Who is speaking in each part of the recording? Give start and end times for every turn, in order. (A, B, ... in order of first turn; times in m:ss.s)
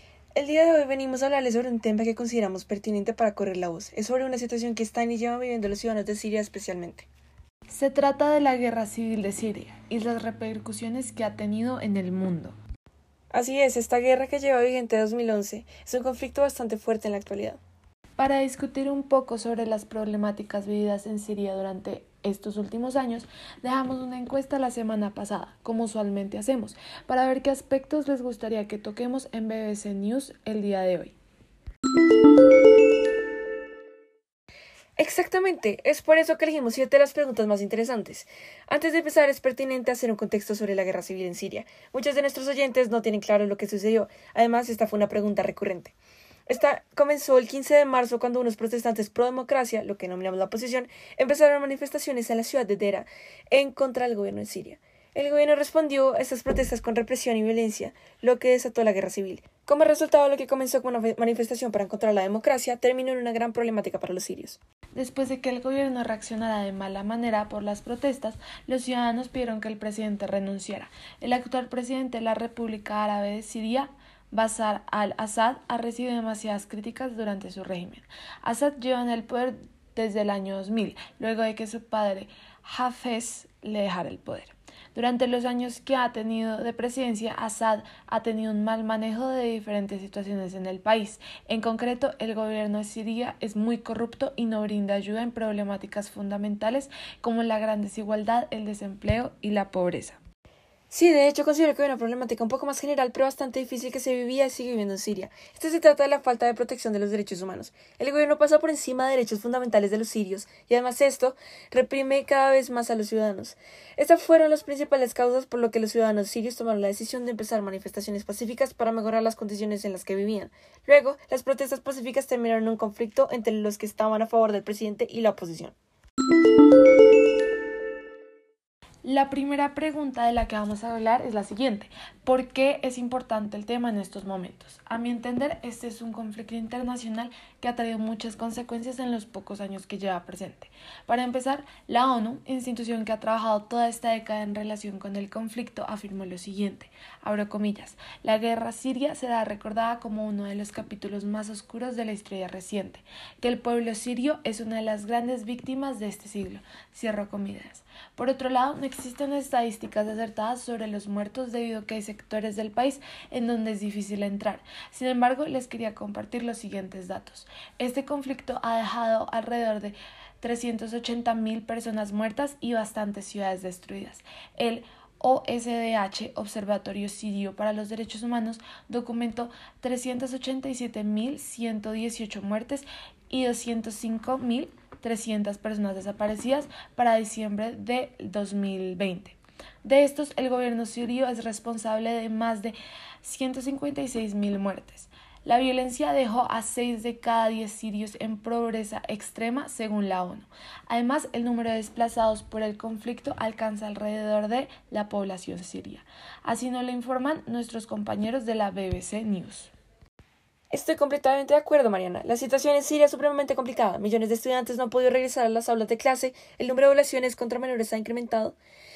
0:00.3-0:07.1 A
0:07.7-0:12.6 B
0:13.3-0:17.6 A
0:18.2-0:31.1 B
0:35.0-0:45.9 A
0:46.5-1:04.6 A
1:05.0-1:40.2 B
1:40.9-2:05.7 A
2:09.0-3:29.7 B
3:30.7-3:38.6 A